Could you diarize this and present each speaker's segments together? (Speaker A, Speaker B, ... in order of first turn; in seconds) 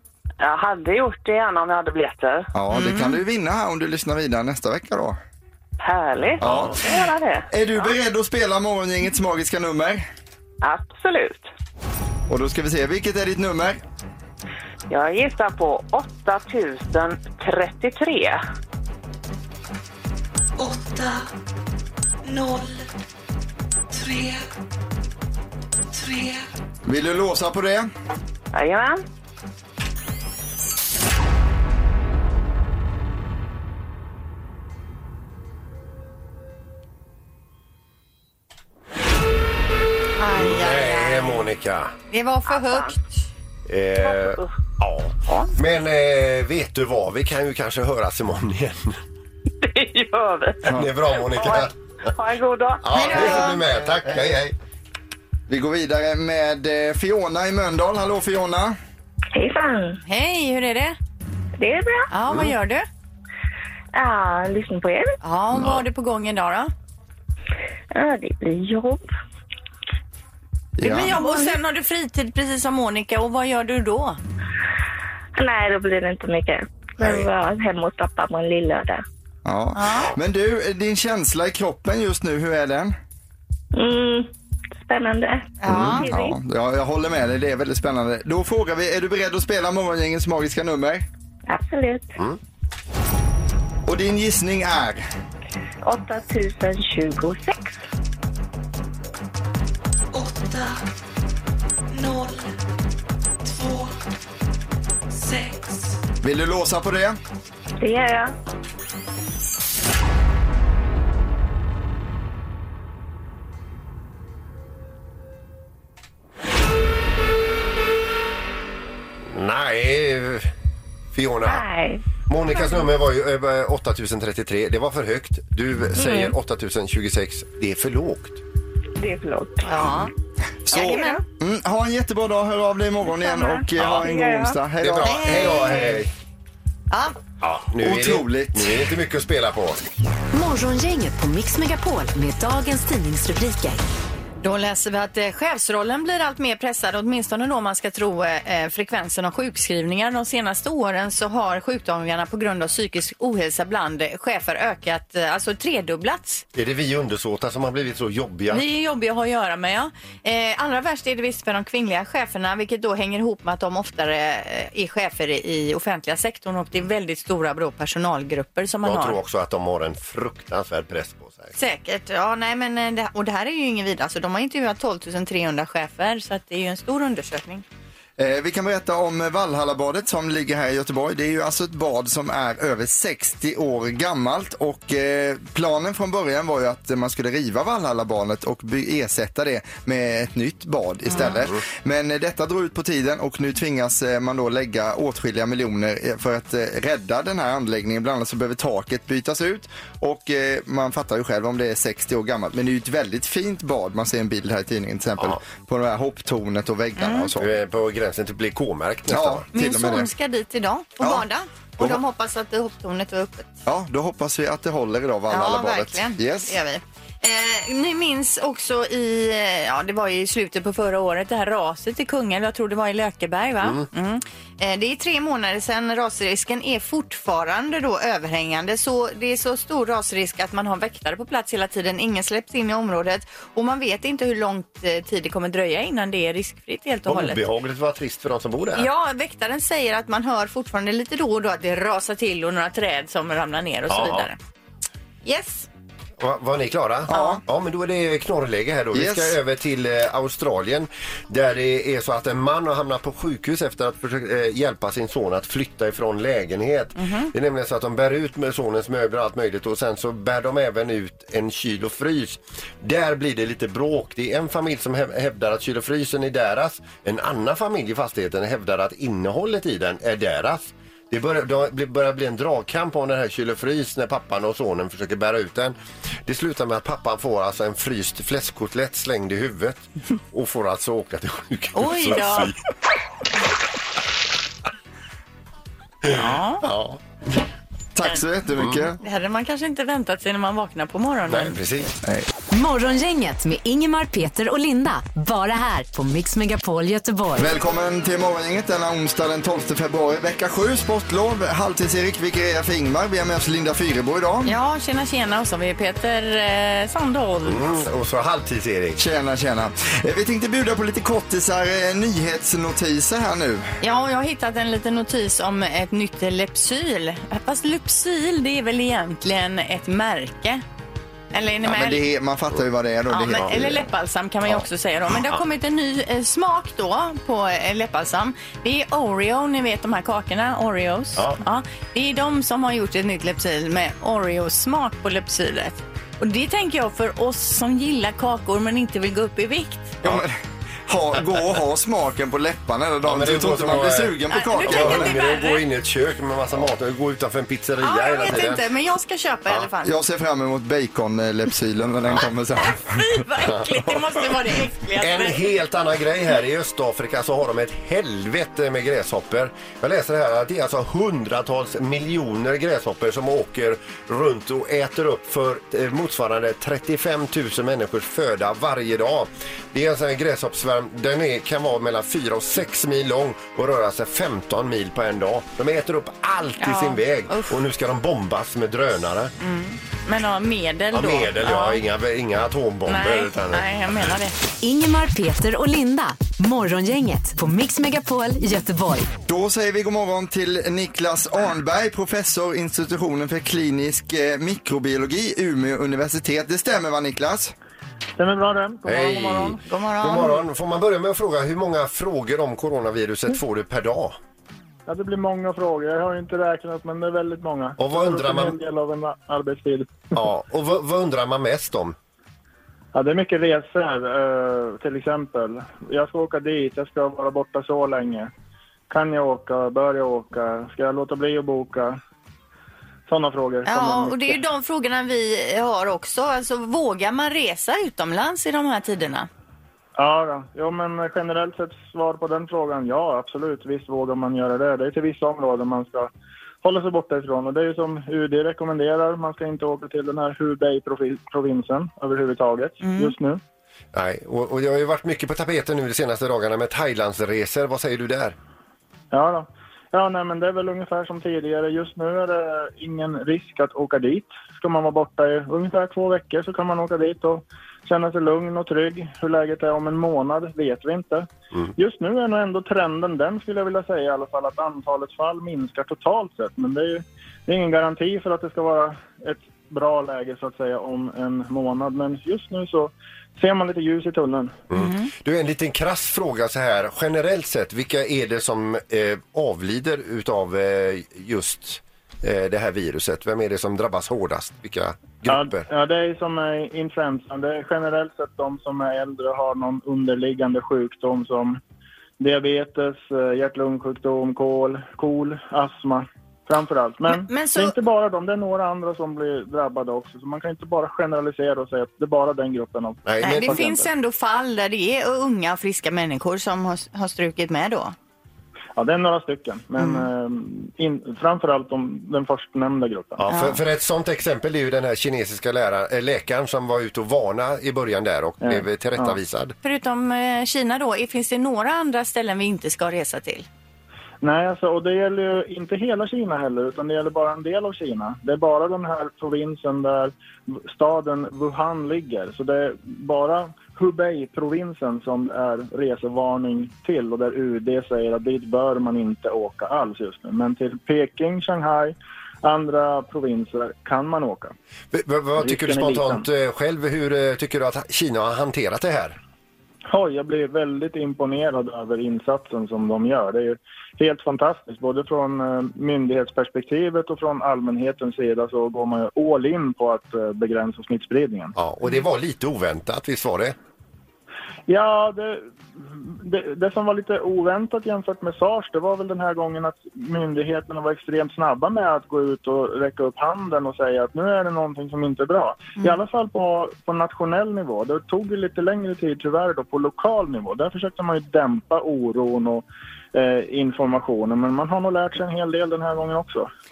Speaker A: 0.4-2.5, 5.8-7.5, 10.6-11.5, 14.9-18.4, 28.5-29.0, 42.5-42.9, 44.0-44.5, 45.3-45.5, 49.6-53.5
Speaker B: 2.5-5.2, 6.4-6.8, 7.5-10.0, 12.3-13.8, 26.8-27.9, 54.0-54.4, 55.5-58.8, 70.8-71.2, 79.4-82.9, 85.7-91.0, 93.8-95.0, 106.2-107.2, 130.7-135.5, 137.8-138.8, 178.2-207.6, 209.1-210.1, 213.7-216.6, 247.1-247.4, 248.9-249.4, 287.9-289.0, 292.0-292.3, 297.4-304.5, 309.0-313.7, 321.6-323.9, 340.0-345.1, 349.8-353.1, 389.3-397.5
Speaker C: 2.7-3.2, 40.2-41.5, 42.1-43.1, 52.9-53.6, 60.0-61.0, 62.1-62.9, 65.2-66.7, 70.8-74.2, 79.7-80.1, 85.6-86.1, 129.6-130.1, 130.7-131.2, 135.0-136.0, 144.4-156.4, 158.5-169.2, 171.5-177.6, 191.1-191.4, 207.0-207.3, 209.5-213.6, 215.3-237.4, 238.7-244.4, 245.2-245.7, 247.1-247.4, 257.0-257.3, 281.7-282.5, 286.1-286.6, 289.0-291.6, 304.4-307.7, 313.8-320.6, 321.3-322.0, 323.1-340.0, 344.3-345.6, 347.8-349.9, 352.6-355.4, 376.6-377.6, 379.4-381.8, 382.9-384.4, 399.5-400.4, 423.6-429.3, 442.8-443.1, 474.7-475.1, 497.1-497.8, 503.2-507.9, 509.8-510.1, 513.3-513.6, 519.6-523.5
Speaker D: 6.4-6.8, 40.4-41.9, 43.7-49.0, 50.7-51.7, 52.8-54.5, 119.3-120.5, 121.1-121.7, 122.3-128.4, 133.8-134.1, 134.8-136.1, 137.4-139.8, 156.5-158.6, 168.8-171.5, 207.4-209.4, 237.1-238.9, 243.9-244.2, 246.2-282.6, 286.1-287.0, 288.6-288.9, 291.3-291.9, 307.4-309.0, 343.1-348.6, 355.0-379.3, 380.9-383.7, 398.9-404.1, 407.8-408.6, 410.1-411.9, 443.9-448.4, 474.7-485.6, 503.1-503.6, 513.2-519.5, 544.9-549.1, 561.5-563.5
Speaker E: 20.6-21.2, 22.2-22.9, 23.9-24.4, 25.9-26.4, 100.1-100.8, 101.9-102.5, 103.4-103.9, 105.1-106.0
Speaker F: 59.3-60.0, 61.6-62.1, 63.9-65.1, 67.9-69.0, 71.2-71.5, 75.3-79.0, 83.7-86.3, 91.5-92.1, 95.8-97.7, 107.8-108.3, 121.4-122.9, 125.9-126.3, 129.0-129.7, 130.9-131.1, 133.1-134.6
Speaker G: 140.3-143.8, 292.5-297.5, 384.6-389.1
Speaker H: 398.2-399.6, 404.9-410.0, 412.9-418.3, 418.9-422.0, 423.1-424.4, 430.0-436.1, 436.6-443.4, 449.1-474.6, 485.3-491.6, 492.2-503.9, 508.8-513.2, 518.4-519.2, 524.2-544.5, 545.4-546.2, 549.9-561.5, 564.7-586.5